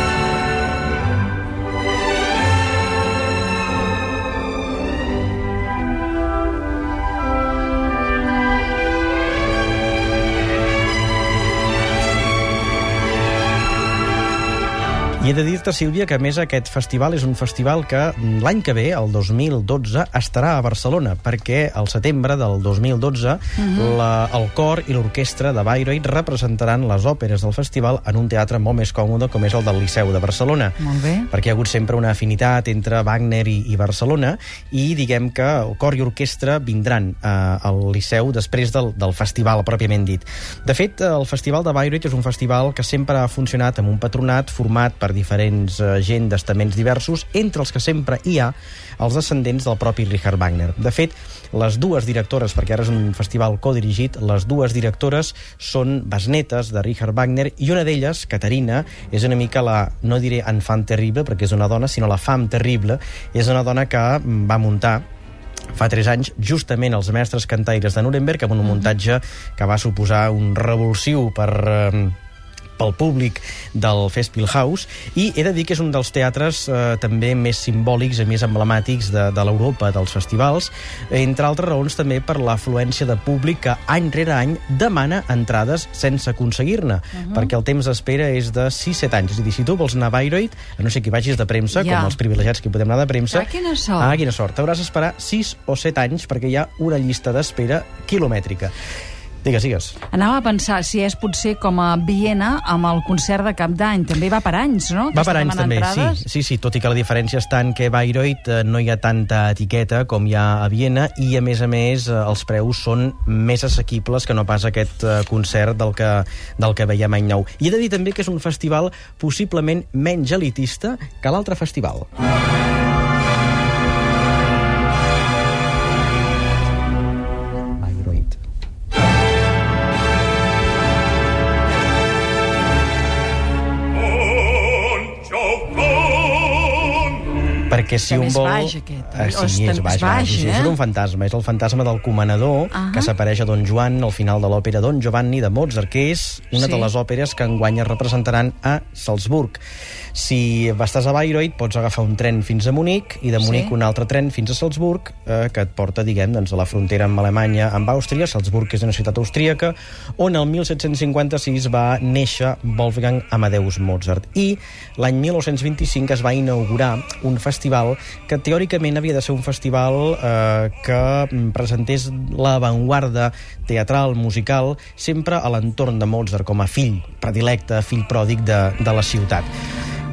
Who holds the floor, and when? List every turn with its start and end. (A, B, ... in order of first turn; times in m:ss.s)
0:15.2-0:30.8 A
0:23.6-0:24.0 B
0:30.8-0:31.3 B
0:31.3-1:05.0 A
1:05.7-1:12.2 A
1:12.8-1:33.5 A
1:27.2-1:27.5 B
1:31.7-1:32.2 B
1:33.3-1:34.2 B
1:34.0-1:38.7 A
1:39.4-1:40.0 A
1:40.1-1:46.2 B
1:45.1-2:02.1 A
2:07.8-2:08.4 A
2:17.7-2:29.6 A
2:18.0-2:20.8 B
2:22.7-2:23.1 B
2:26.6-2:26.9 B
2:30.1-2:59.5 A
2:33.4-2:33.7 B